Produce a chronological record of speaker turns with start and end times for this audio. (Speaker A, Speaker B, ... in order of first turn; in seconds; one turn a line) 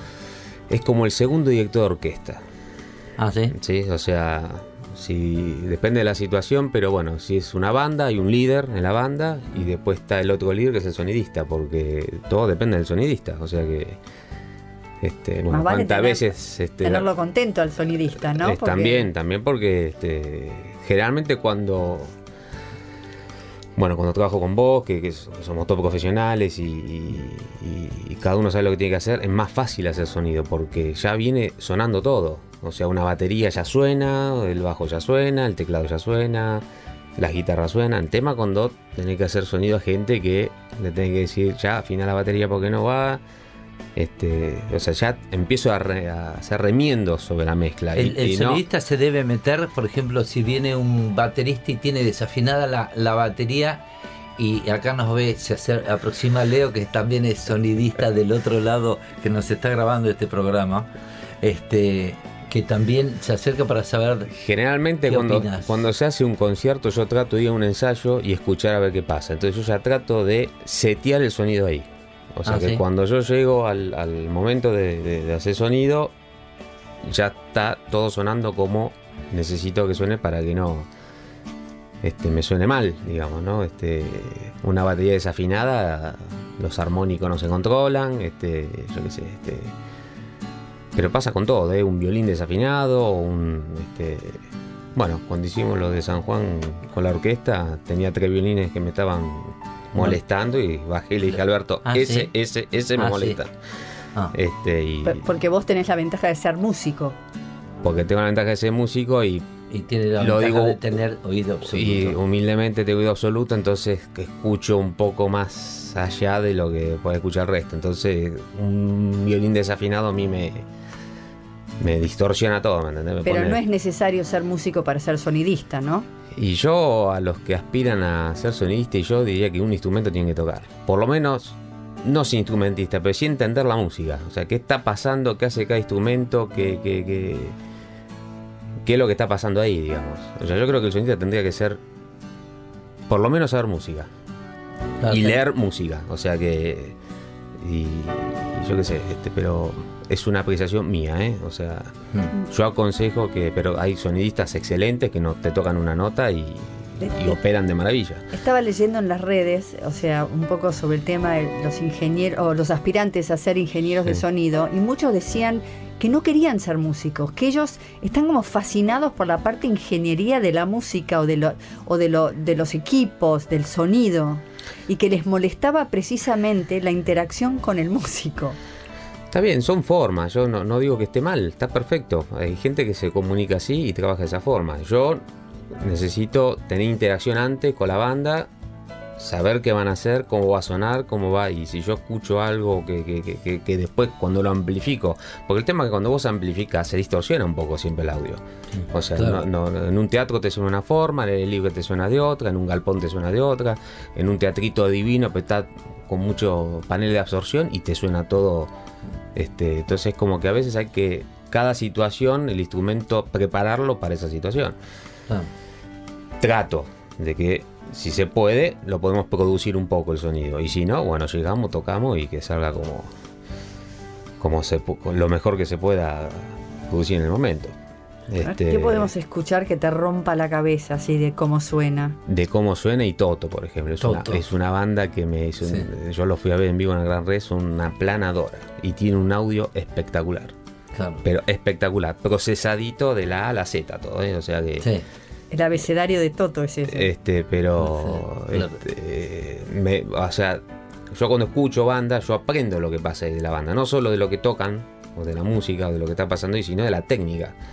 Speaker A: 0.7-2.4
Speaker B: 3.2-3.5
Speaker A: 3.5-14.0
Speaker A: 15.0-17.1
Speaker C: 15.5-19.1
Speaker A: 18.4-22.1
Speaker A: 23.8-36.6
Speaker A: 37.2-43.2
Speaker A: 44.0-48.6
Speaker B: 47.9-53.8
Speaker B: 54.4-60.9
Speaker B: 61.4-64.3
Speaker A: 64.3-76.1
Speaker B: 65.1-65.8
Speaker B: 72.5-72.8
Speaker A: 77.0-80.9
Speaker A: 82.0-89.7
Speaker A: 90.9-94.4
Speaker A: 94.9-103.5
Speaker B: 101.8-102.3
Speaker B: 103.0-103.4
Speaker A: 104.3-105.2
Speaker C: 105.0-107.2
Speaker A: 107.8-109.5
Speaker B: 109.7-112.2
Speaker A: 110.2-110.8
Speaker A: 111.7-120.6
Speaker A: 121.8-123.6
Speaker C: 123.2-126.1
Speaker A: 126.3-137.5
Speaker A: 138.8-141.8
Speaker A: 143.1-144.1
Speaker B: 145.0-145.4
Speaker A: 145.1-146.9
Speaker A: 147.6-151.9
Speaker A: 152.5-158.2
Speaker C: 157.0-157.3
Speaker C: 158.3-178.6
Speaker A: 179.3-188.5
Speaker A: 189.2-208.7
Speaker B: 198.7-199.4
Speaker A: 209.3-214.8
Speaker A: 216.4-223.1
Speaker A: 224.4-227.7
Speaker A: 228.3-229.1
Speaker C: 228.4-232.2
Speaker A: 232.3-240.5
Speaker B: 234.0-234.4
Speaker B: 240.9-241.2
Speaker A: 241.2-244.9
Speaker C: 245.5-247.1
Speaker A: 246.9-257.5
Speaker B: 247.8-248.8